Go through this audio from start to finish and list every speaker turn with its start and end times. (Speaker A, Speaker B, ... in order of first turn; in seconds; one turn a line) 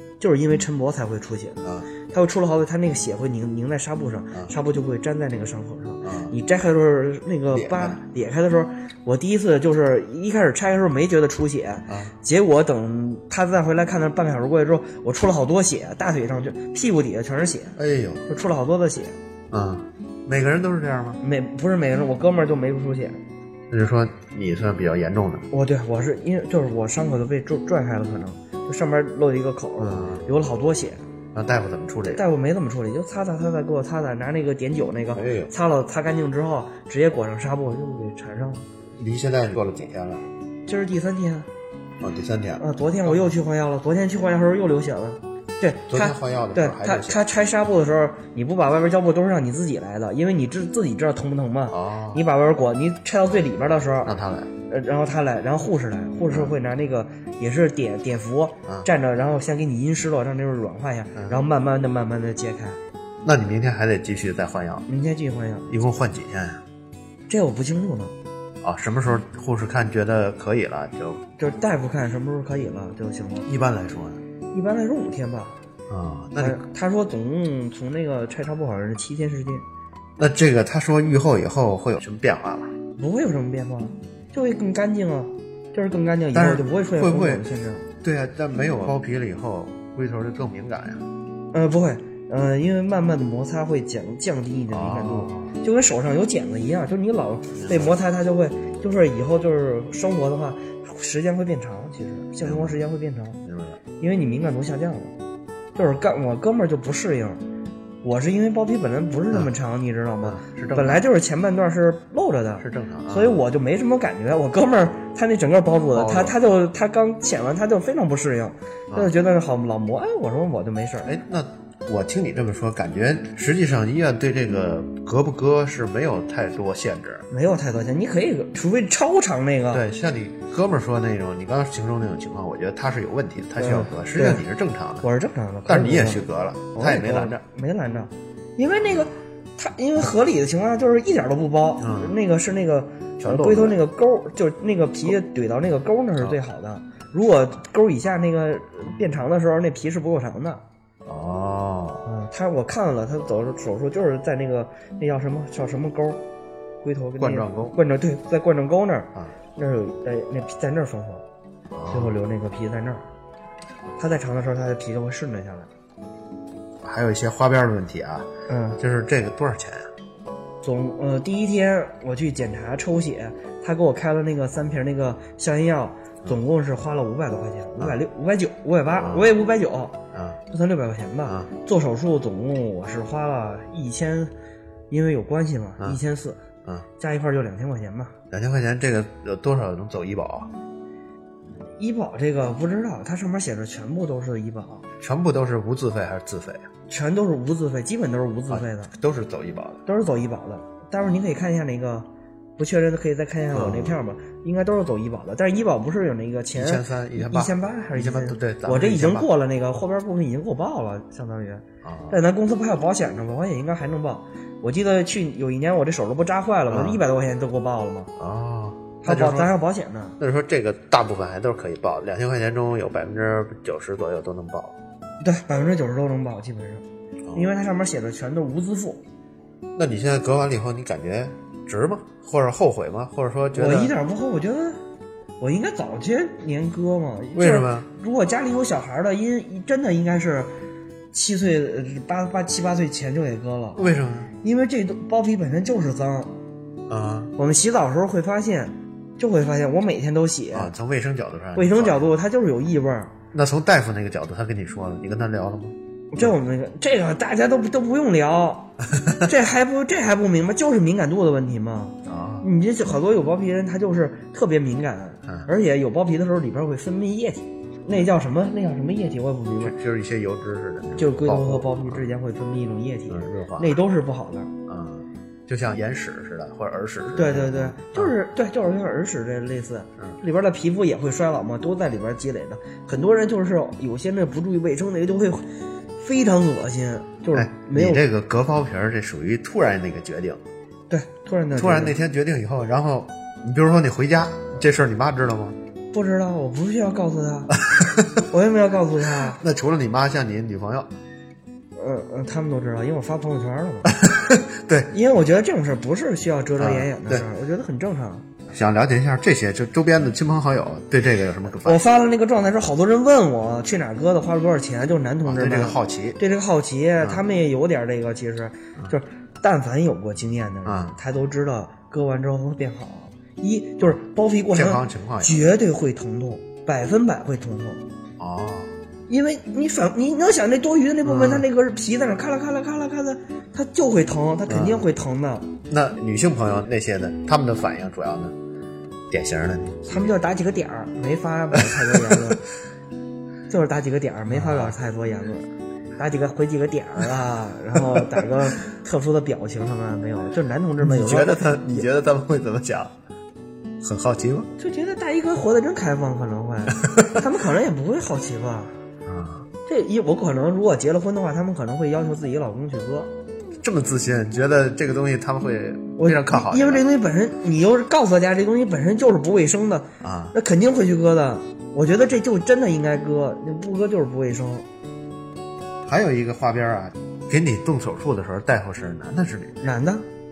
Speaker A: 0.2-17.8
Speaker B: 1.6-1.9
Speaker B: 6.0-6.3
Speaker B: 7.5-8.0
Speaker B: 11.9-12.1
Speaker B: 17.8-18.2
Speaker A: 18.3-19.2
Speaker B: 19.5-21.2
Speaker A: 21.2-23.2
Speaker B: 23.7-25.5
Speaker A: 25.5-31.0
Speaker B: 29.8-30.2
Speaker B: 31.3-32.2
Speaker A: 32.1-38.7
Speaker B: 35.1-35.5
Speaker B: 39.0-40.2
Speaker A: 40.7-41.5
Speaker B: 42.0-43.3
Speaker A: 42.6-54.1
Speaker B: 45.9-47.2
Speaker B: 51.7-52.2
Speaker B: 54.0-54.5
Speaker A: 54.7-62.8
Speaker B: 56.3-56.6
Speaker B: 61.2-61.4
Speaker B: 63.2-64.9
Speaker A: 64.9-65.7
Speaker B: 65.7-66.6
Speaker A: 67.3-68.1
Speaker B: 68.6-71.2
Speaker A: 71.4-73.5
Speaker B: 73.5-74.2
Speaker A: 74.5-75.6
Speaker B: 75.9-76.6
Speaker A: 76.4-79.7
Speaker B: 80.2-82.7
Speaker A: 83.0-87.9
Speaker B: 86.3-87.4
Speaker B: 88.0-91.0
Speaker A: 91.5-103.4
Speaker B: 94.7-95.5
Speaker B: 97.6-98.0
Speaker B: 102.4-102.8
Speaker B: 103.5-103.8
Speaker A: 104.0-105.1
Speaker A: 105.8-107.4
Speaker A: 108.0-121.1
Speaker B: 110.2-111.0
Speaker B: 112.6-113.4
Speaker B: 115.9-116.4
Speaker B: 121.0-127.3
Speaker A: 127.3-129.8
Speaker B: 129.7-135.1
Speaker A: 133.6-134.4
Speaker A: 135.0-150.6
Speaker B: 135.7-137.4
Speaker B: 141.8-142.2
Speaker B: 143.2-143.8
Speaker B: 151.1-152.1
Speaker A: 152.1-156.2
Speaker A: 156.8-161.2
Speaker B: 157.2-157.8
Speaker B: 161.7-162.1
Speaker A: 161.9-163.1
Speaker A: 164.0-165.7
Speaker B: 166.8-169.9
Speaker A: 168.5-168.8
Speaker A: 170.6-180.0
Speaker B: 179.0-179.3
Speaker B: 180.1-180.4
Speaker A: 180.5-184.3
Speaker A: 184.9-186.4
Speaker A: 187.0-188.1
Speaker B: 188.3-190.5
Speaker A: 191.8-194.8
Speaker B: 195.0-196.7
Speaker A: 196.9-198.9
Speaker B: 198.5-199.8
Speaker A: 199.9-218.1
Speaker B: 203.5-204.0
Speaker B: 206.6-209.3
Speaker B: 211.8-212.2
Speaker B: 216.7-217.0
Speaker B: 218.2-219.6
Speaker A: 219.0-220.2
Speaker B: 220.2-224.8
Speaker A: 225.2-226.8
Speaker A: 227.3-229.0
Speaker B: 229.8-233.9
Speaker A: 233.5-234.8
Speaker A: 235.4-240.5
Speaker B: 237.3-237.9
Speaker A: 241.1-243.8
Speaker B: 243.8-244.3
Speaker A: 244.4-246.3
Speaker B: 246.9-247.3
Speaker A: 247.4-250.7
Speaker B: 250.5-252.0
Speaker A: 251.6-253.1
Speaker B: 253.3-256.3
Speaker A: 256.1-258.7
Speaker A: 259.2-269.8
Speaker B: 262.1-262.5
Speaker B: 269.6-272.1
Speaker A: 271.0-274.5
Speaker B: 273.1-273.8
Speaker B: 274.7-278.1
Speaker A: 277.1-285.5
Speaker A: 286.0-288.0
Speaker B: 287.3-290.4
Speaker A: 290.9-292.0
Speaker B: 291.6-295.6
Speaker A: 295.9-297.5
Speaker B: 297.6-298.2
Speaker A: 298.3-299.4
Speaker B: 299.3-300.9
Speaker A: 301.8-303.9
Speaker B: 303.9-304.9
Speaker A: 304.9-308.3
Speaker B: 306.6-307.2
Speaker B: 308.5-311.9
Speaker A: 311.6-327.8
Speaker B: 315.2-316.2
Speaker B: 320.7-320.9
Speaker B: 324.5-325.5
Speaker B: 328.2-328.7
Speaker A: 329.1-335.5
Speaker B: 331.0-331.5
Speaker B: 334.5-334.8
Speaker B: 335.7-338.3
Speaker B: 339.1-340.2
Speaker A: 339.9-342.4
Speaker B: 341.5-342.1
Speaker A: 343.5-351.9
Speaker B: 344.3-344.8
Speaker B: 350.8-352.9
Speaker B: 353.8-354.5
Speaker A: 354.6-358.7
Speaker B: 356.8-357.1
Speaker B: 359.1-359.5
Speaker A: 359.7-363.1
Speaker B: 363.6-366.9
Speaker A: 366.0-374.7
Speaker B: 370.0-370.3
Speaker B: 375.9-379.6
Speaker A: 379.6-380.1